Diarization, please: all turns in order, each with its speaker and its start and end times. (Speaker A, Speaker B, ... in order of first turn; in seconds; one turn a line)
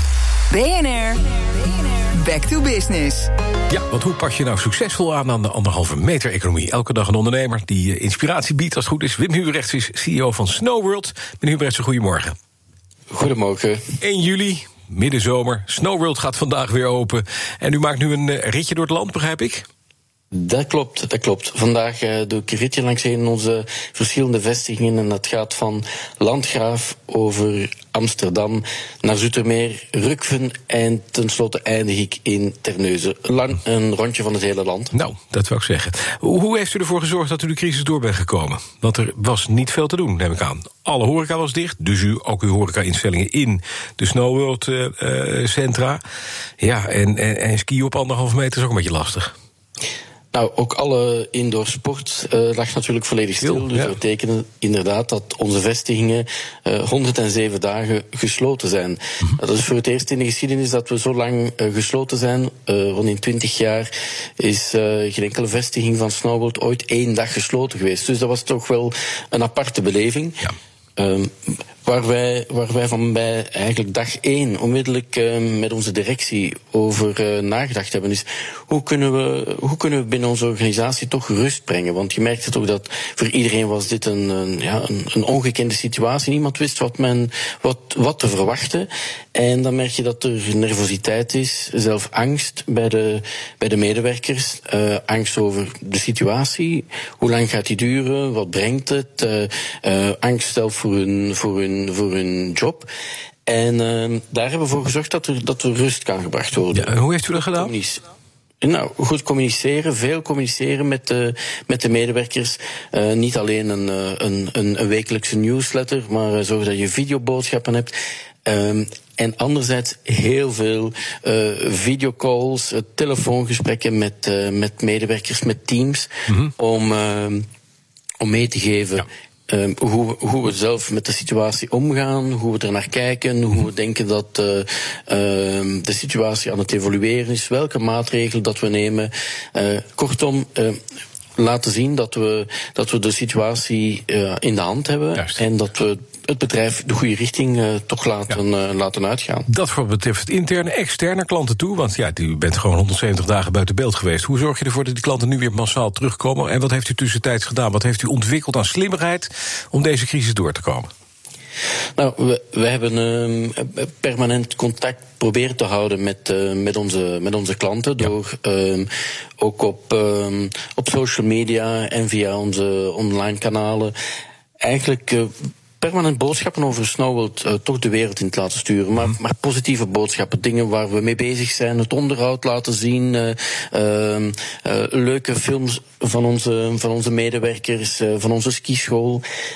Speaker A: 0.5-3.3
Speaker B: 3.7-12.3
Speaker C: 13.1-13.8
Speaker B: 14.0-19.7
Speaker C: 20.3-34.9
Speaker B: 34.9-46.0
Speaker B: 46.6-49.3
Speaker C: 50.3-102.9
Speaker B: 53.4-53.9
Speaker C: 103.5-107.0
Speaker B: 106.7-107.7
Speaker C: 107.5-108.0
Speaker C: 108.6-117.9
Speaker C: 118.5-127.5
Speaker C: 128.2-140.8
Speaker C: 141.4-149.5
Speaker B: 149.5-160.9
Speaker C: 162.0-168.9
Speaker C: 169.4-173.9
Speaker C: 174.6-189.2